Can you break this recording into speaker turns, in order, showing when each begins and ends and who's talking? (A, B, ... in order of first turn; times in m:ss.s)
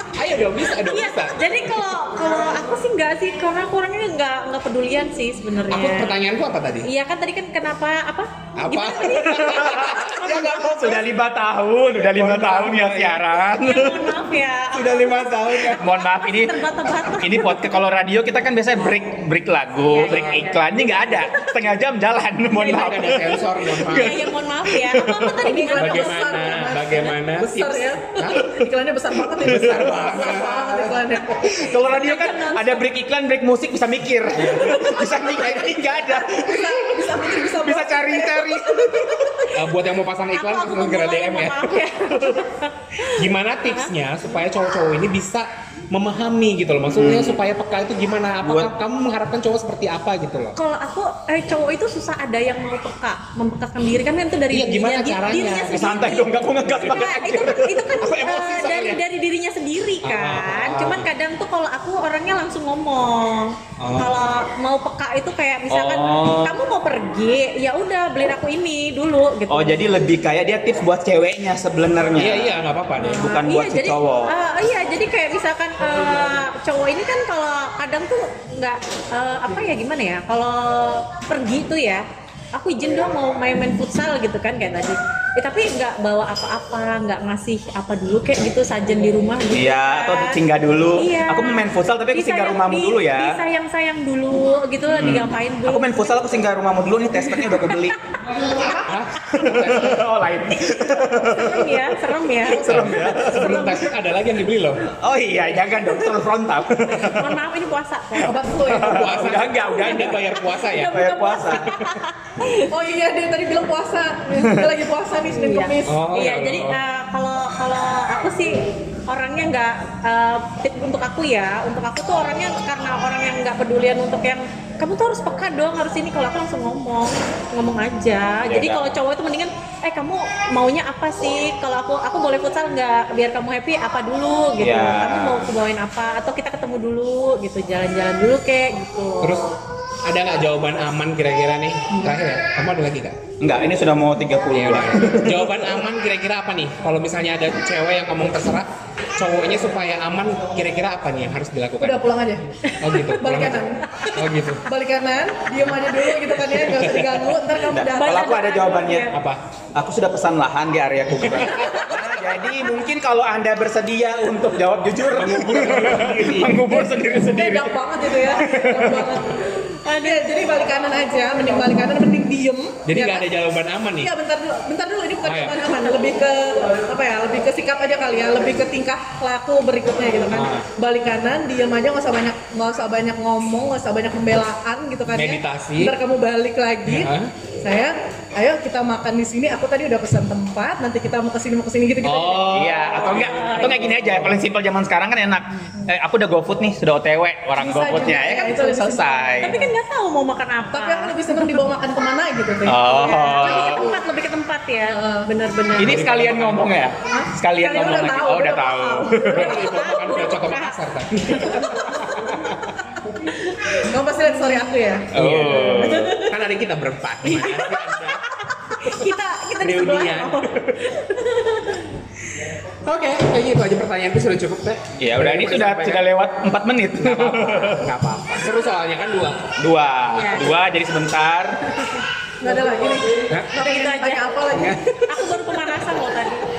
0:00.1-0:01.7 A
0:00.8-0:06.1 B
0:05.7-0:06.9 A
0:06.8-0:10.6 B
0:08.6-0:10.8 A
0:09.2-0:14.1 C
0:12.0-0:13.2 A
0:13.5-0:17.8 B
0:14.8-0:25.5 C
0:15.2-0:15.5 A
0:19.9-0:21.5 B
0:20.0-0:20.4 A
0:22.5-0:24.3 A
0:23.8-0:26.4 B
0:25.4-0:31.4 D
0:25.6-0:28.5 A
0:28.4-0:28.6 C
0:29.4-0:31.6 A
0:31.4-0:39.3 C
0:31.7-0:32.8 B
0:34.3-0:35.7 A
0:34.5-0:39.5 D
0:39.5-0:41.9 A
0:40.3-0:43.9 B
0:43.0-0:50.6 A
0:46.9-0:47.4 C
0:48.4-0:48.7 C
0:50.6-1:09.8 B
0:54.5-0:56.1 A
0:55.7-0:58.0 C
0:56.6-0:57.1 A
0:58.0-0:59.0 A
1:00.0-1:01.1 A
1:03.8-1:04.1 A
1:05.7-1:06.6 C
1:09.5-1:12.6 C
1:12.2-1:13.3 A
1:13.0-1:30.4 B
1:13.2-1:14.3 C
1:29.5-1:33.4 C
1:31.0-1:36.0 B
1:34.9-1:38.0 C
1:37.3-1:37.8 B
1:38.7-1:40.0 A
1:39.3-1:43.9 C
1:41.3-1:42.8 B
1:42.4-1:44.8 A
1:44.9-1:47.4 C
1:46.8-1:48.4 B
1:48.1-1:51.7 C
1:48.2-1:49.2 D
1:48.7-1:51.1 A
1:49.9-1:52.7 B
1:51.6-1:52.0 A
1:52.7-1:56.0 D
1:54.4-1:54.7 C
1:55.2-2:19.6 B
1:55.8-1:56.8 A
2:08.5-2:09.0 C
2:14.6-2:15.5 C
2:19.2-2:19.5 A
2:20.0-2:23.2 A
2:23.4-2:25.6 C
2:24.5-2:32.0 A
2:31.8-2:32.4 D
2:32.7-2:33.1 B
2:32.8-2:34.6 A
2:33.1-2:33.8 D
2:34.6-2:38.4 D
2:36.4-2:37.3 A
2:37.7-2:39.1 C
2:37.9-2:39.1 B
2:39.1-2:39.4 A
2:39.7-2:49.2 C
2:41.2-2:41.7 A
2:41.6-2:42.0 D
2:45.1-2:46.8 A
2:46.7-2:53.3 D
2:49.8-2:50.4 B
2:52.9-2:54.1 A
2:54.0-3:12.6 D
2:55.2-2:55.6 A
3:00.3-3:00.7 A
3:05.1-3:06.0 A
3:06.8-3:07.3 A
3:12.0-3:14.4 A
3:12.4-3:19.6 C
3:12.9-3:14.0 B
3:17.6-3:19.6 D
3:19.4-3:21.5 B
3:20.7-3:23.8 D
3:22.6-3:23.9 C
3:22.9-3:26.1 B
3:24.9-3:25.3 D
3:25.8-3:26.8 A
3:25.8-3:29.7 C
3:27.1-3:29.3 D
3:29.3-3:32.8 A
3:29.4-3:30.8 B
3:31.4-3:31.6 B
3:31.5-3:31.8 D
3:33.3-3:33.9 B
3:33.7-3:35.1 D
3:35.1-3:36.2 C
3:35.1-3:38.2 A
3:35.7-3:36.4 D
3:37.2-3:41.9 B
3:39.6-3:40.6 A
3:42.8-3:46.1 A
3:45.0-3:47.9 C
3:47.0-3:49.5 A
3:49.6-3:51.8 C
3:50.1-3:50.6 B
3:52.4-3:55.8 D
3:53.3-3:53.6 A
3:53.5-3:54.3 B
3:54.5-3:54.9 A
3:55.1-3:56.5 B